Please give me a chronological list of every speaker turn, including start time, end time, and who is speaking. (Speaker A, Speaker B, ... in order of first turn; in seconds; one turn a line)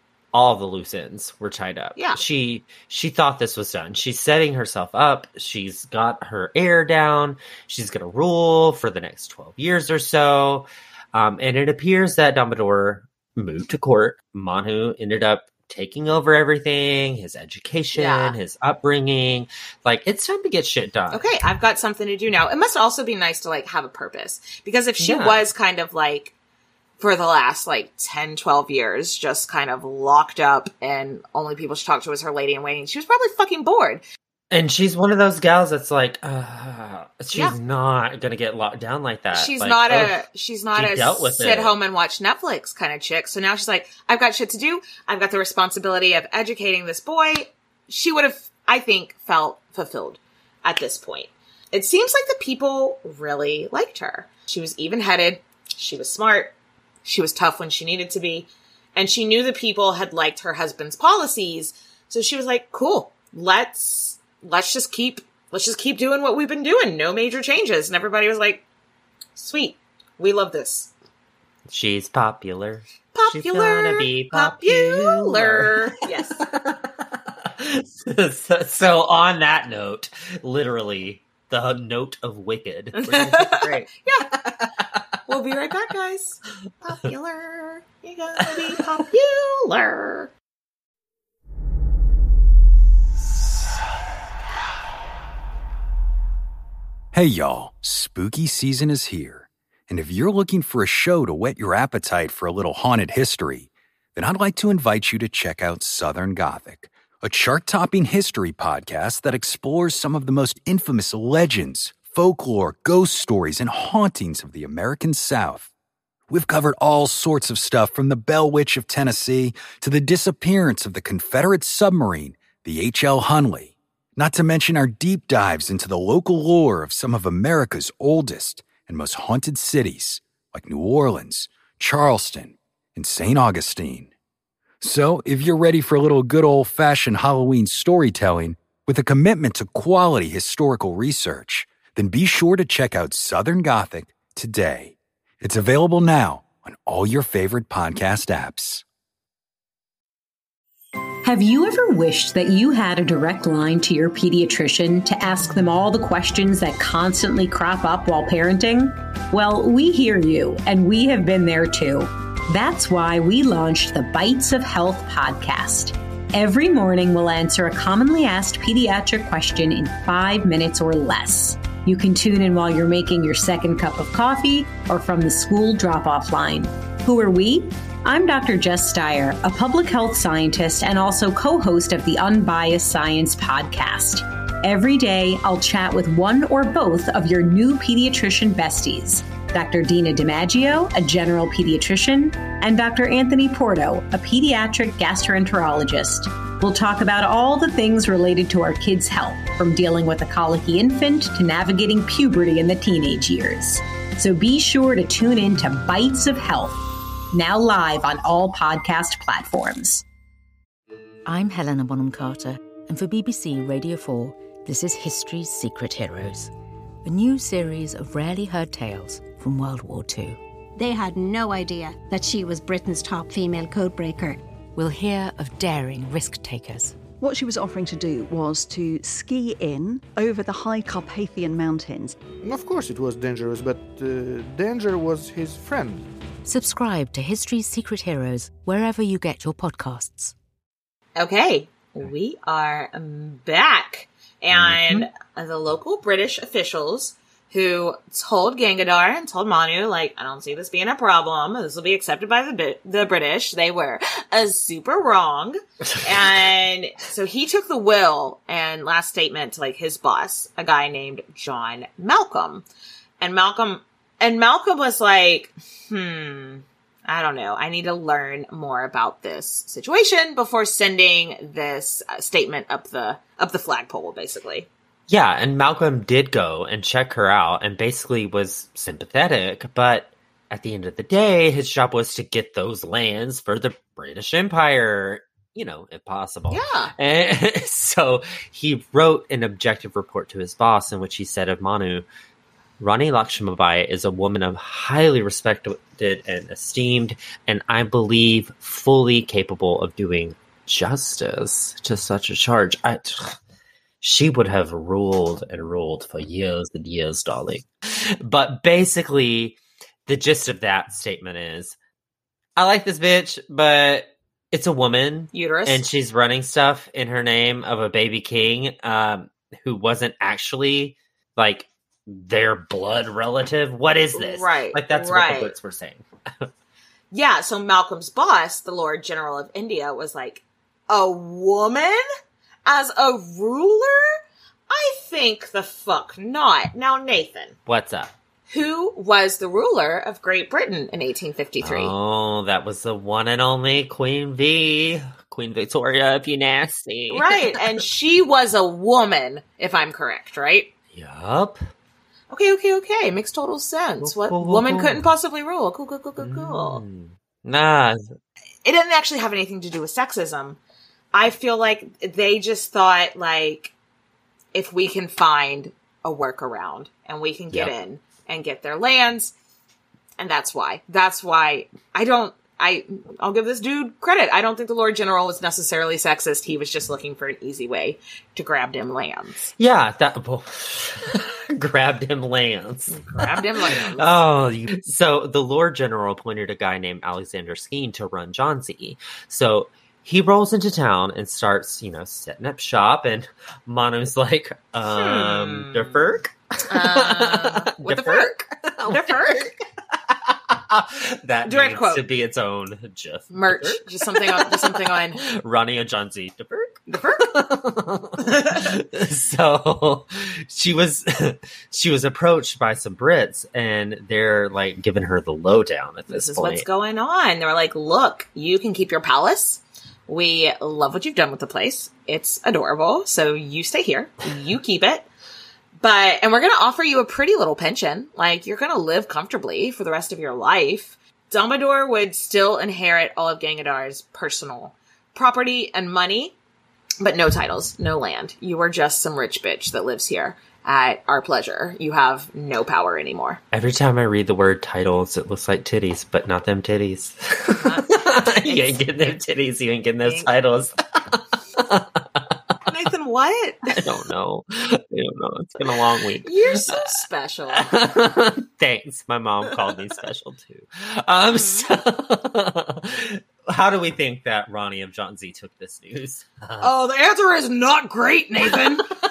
Speaker A: 0.3-21.3
Speaker B: 17.9-18.4
Speaker B: 21.1-26.3
Speaker A: 25.0-25.4
Speaker B: 27.0-34.0
Speaker A: 34.5-40.1
Speaker B: 39.3-56.5
Speaker A: 40.7-41.7
Speaker B: 57.0-68.6
Speaker B: 69.4-70.9
Speaker A: 71.7-75.9
Speaker B: 73.1-76.4
Speaker A: 76.4-76.9
Speaker A: 77.6-83.9
Speaker B: 83.0-84.3
Speaker B: 85.3-90.3
Speaker C: 97.1-115.7
Speaker C: 116.3-134.1
Speaker C: 134.8-148.8
Speaker D: 151.2-206.8
Speaker D: 207.3-210.0
Speaker E: 211.2-216.5
Speaker E: 217.0-220.4
Speaker F: 220.8-224.4
Speaker E: 224.8-227.0
Speaker G: 227.2-232.2
Speaker H: 232.4-236.1
Speaker E: 236.4-240.3
Speaker B: 241.2-262.6
Speaker A: 244.5-245.0
Speaker B: 263.2-274.7
Speaker A: 275.1-292.0
Speaker B: 286.5-286.9
Speaker A: 292.8-303.4
Speaker A: 304.0-307.6
Speaker A: 308.2-311.8
Speaker A: 312.6-326.5
Speaker B: 315.3-315.8
Speaker B: 324.1-325.5
Speaker B: 327.1-332.0
Speaker B: 332.6-334.2
Speaker B: 334.7-337.5
Speaker A: 337.7-338.1
Speaker B: 338.5-341.9
Speaker A: 341.6-347.4
Speaker B: 347.1-350.7
Speaker A: 350.9-351.6
Speaker B: 352.3-356.8
Speaker A: 354.0-355.0
Speaker A: 356.2-358.1
Speaker B: 358.6-360.6
Speaker B: 361.1-363.7
Speaker B: 364.5-369.3
Speaker B: 370.2-379.5
Speaker A: 379.6-399.6
Speaker B: 382.9-384.2
Speaker B: 394.9-396.0
Speaker B: 396.6-398.3
Speaker B: 398.9-399.5
Speaker A: 400.3-416.6
Speaker B: 401.4-402.0
Speaker B: 403.3-405.2
Speaker B: 406.9-407.3
Speaker B: 408.2-408.6
Speaker B: 416.1-425.1
Speaker B: 425.8-436.3
Speaker B: 437.0-443.4
Speaker A: 443.5-451.9
Speaker B: 447.6-448.8
Speaker B: 450.0-450.3
Speaker B: 452.7-453.7
Speaker A: 453.7-457.0
Speaker B: 456.2-457.7
Speaker A: 457.5-466.7
Speaker B: 461.3-461.6
Speaker B: 466.6-468.8